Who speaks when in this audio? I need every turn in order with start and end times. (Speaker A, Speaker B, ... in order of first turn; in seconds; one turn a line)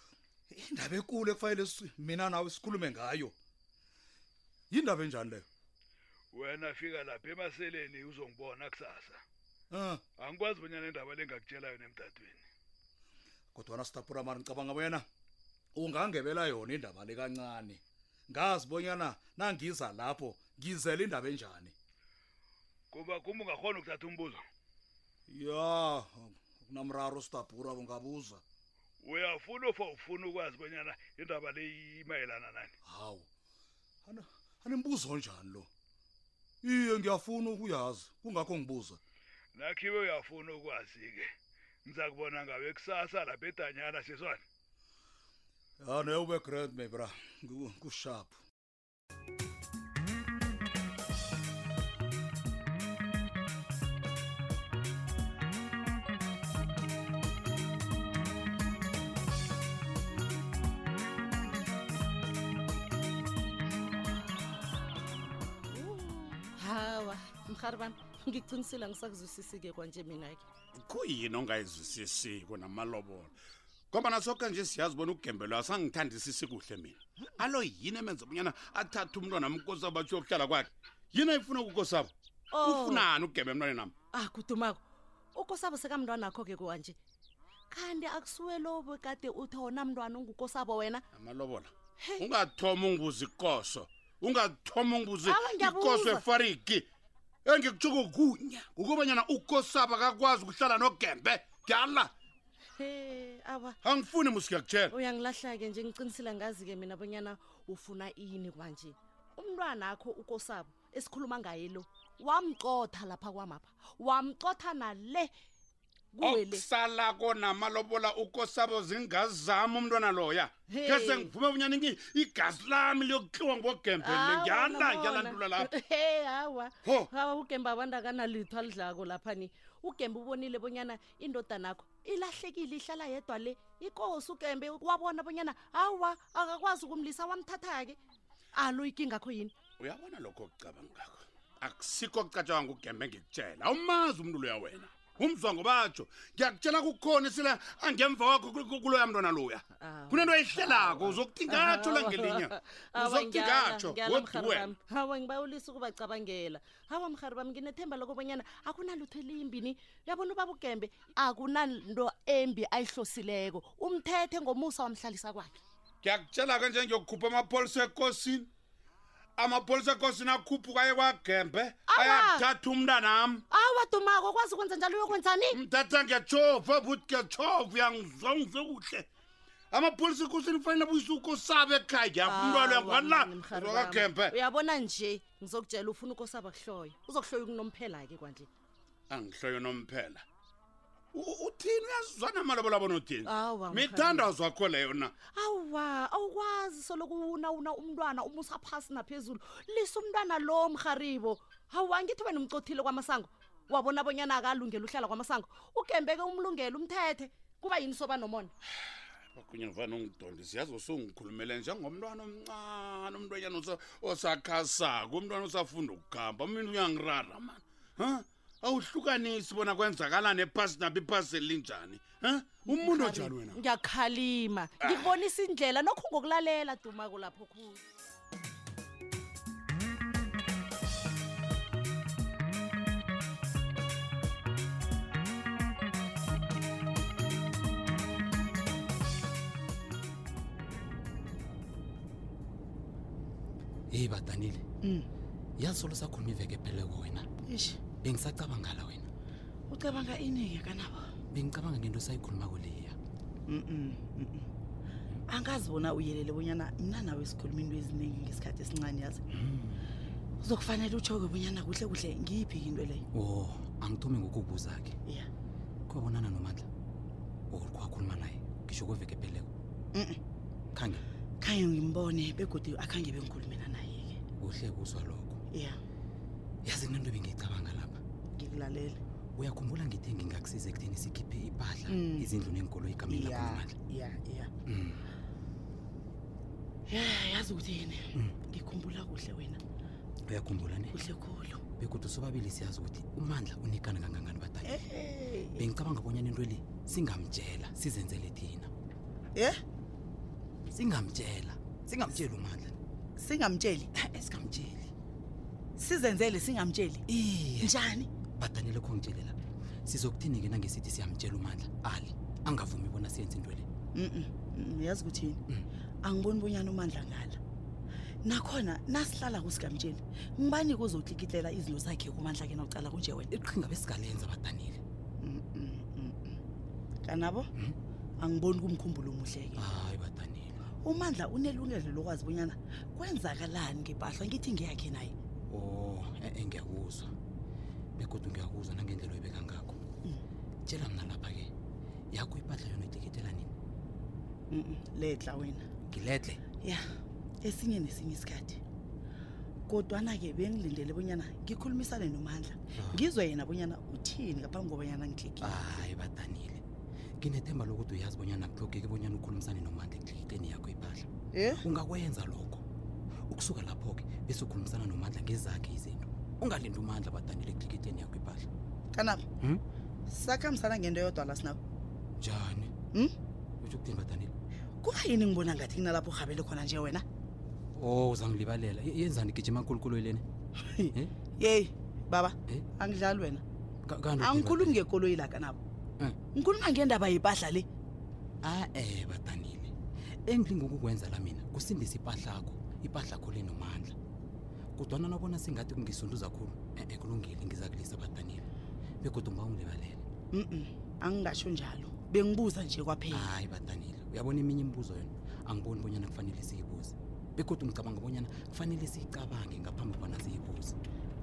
Speaker A: 0.5-3.3
Speaker A: 4.7-5.5
Speaker B: 6.3-9.2
Speaker A: 9.7-10.0
Speaker B: 10.2-12.4
Speaker A: 13.5-15.0
Speaker A: 15.8-21.7
Speaker B: 22.9-24.4
Speaker A: 25.3-28.4
Speaker B: 29.0-32.7
Speaker A: 32.8-33.3
Speaker A: 34.0-35.7
Speaker A: 36.6-39.0
Speaker B: 39.5-41.3
Speaker B: 41.9-44.4
Speaker A: 45.8-48.4
Speaker C: 65.7-70.4
Speaker D: 70.8-73.3
Speaker D: 73.9-83.9
Speaker C: 82.5-83.1
Speaker C: 84.1-84.8
Speaker C: 85.3-87.0
Speaker C: 87.7-91.0
Speaker D: 91.1-96.9
Speaker C: 92.0-92.3
Speaker C: 95.2-96.2
Speaker D: 97.4-102.1
Speaker C: 102.8-103.8
Speaker D: 103.8-104.9
Speaker C: 104.9-115.3
Speaker C: 116.1-116.7
Speaker D: 116.2-125.7
Speaker C: 120.7-121.3
Speaker C: 124.0-138.0
Speaker D: 126.8-127.1
Speaker C: 138.5-139.5
Speaker D: 139.8-154.7
Speaker C: 149.8-165.5
Speaker D: 166.0-168.5
Speaker D: 169.4-173.4
Speaker C: 171.9-172.4
Speaker C: 173.5-175.6
Speaker D: 175.5-179.1
Speaker D: 179.7-184.3
Speaker C: 182.2-188.5
Speaker D: 189.1-190.2
Speaker D: 191.1-195.1
Speaker C: 193.2-194.3
Speaker C: 195.3-208.5
Speaker D: 209.3-223.6
Speaker C: 222.7-227.8
Speaker D: 224.8-225.1
Speaker E: 243.9-244.6
Speaker E: 245.6-247.3
Speaker F: 247.5-247.8
Speaker E: 248.0-249.1
Speaker F: 249.7-251.0
Speaker E: 251.3-252.9
Speaker F: 253.5-254.5
Speaker F: 255.3-259.2
Speaker E: 259.3-259.9
Speaker F: 260.4-263.0
Speaker E: 263.1-264.9
Speaker E: 265.9-266.7
Speaker E: 267.5-269.5
Speaker F: 269.9-270.2
Speaker E: 270.7-271.1
Speaker F: 271.4-274.2
Speaker E: 274.4-275.4
Speaker F: 275.5-275.8
Speaker E: 276.6-278.0
Speaker F: 278.4-279.0
Speaker E: 279.4-283.8
Speaker F: 281.9-282.3
Speaker F: 283.1-284.5
Speaker E: 284.7-285.0
Speaker F: 286.9-289.6
Speaker E: 290.3-291.0
Speaker F: 290.9-291.6
Speaker E: 291.8-294.8
Speaker F: 294.6-295.6
Speaker E: 295.5-298.7
Speaker F: 299.3-299.6
Speaker E: 300.7-302.8
Speaker F: 303.2-303.9
Speaker E: 304.0-304.9
Speaker F: 305.8-307.0
Speaker E: 307.1-307.8
Speaker F: 307.6-308.1
Speaker E: 308.4-309.3
Speaker E: 309.9-313.6
Speaker F: 313.9-315.4
Speaker F: 316.0-317.4
Speaker F: 318.2-323.3
Speaker E: 323.3-324.8
Speaker F: 325.2-326.4
Speaker F: 327.0-327.4
Speaker F: 328.2-329.7
Speaker E: 329.5-330.6
Speaker F: 330.8-335.1
Speaker E: 335.5-337.1
Speaker E: 338.0-339.8
Speaker E: 340.6-341.5
Speaker E: 342.1-343.5
Speaker F: 344.5-345.6
Speaker E: 345.9-346.4
Speaker F: 347.4-348.6
Speaker F: 349.7-355.6
Speaker E: 352.8-353.1
Speaker E: 355.4-356.6
Speaker E: 357.2-362.6
Speaker F: 361.3-361.6
Speaker E: 363.3-368.5
Speaker F: 368.9-369.2
Speaker F: 370.1-371.6
Speaker E: 372.2-372.7
Speaker E: 373.6-374.3
Speaker F: 374.8-377.0
Speaker E: 377.8-380.2
Speaker F: 380.6-383.4
Speaker E: 383.9-384.8
Speaker F: 384.2-385.6
Speaker F: 386.3-387.7
Speaker E: 388.4-389.7
Speaker E: 390.3-393.9
Speaker E: 394.8-398.4
Speaker E: 399.0-400.0
Speaker F: 400.3-403.3
Speaker E: 403.1-410.8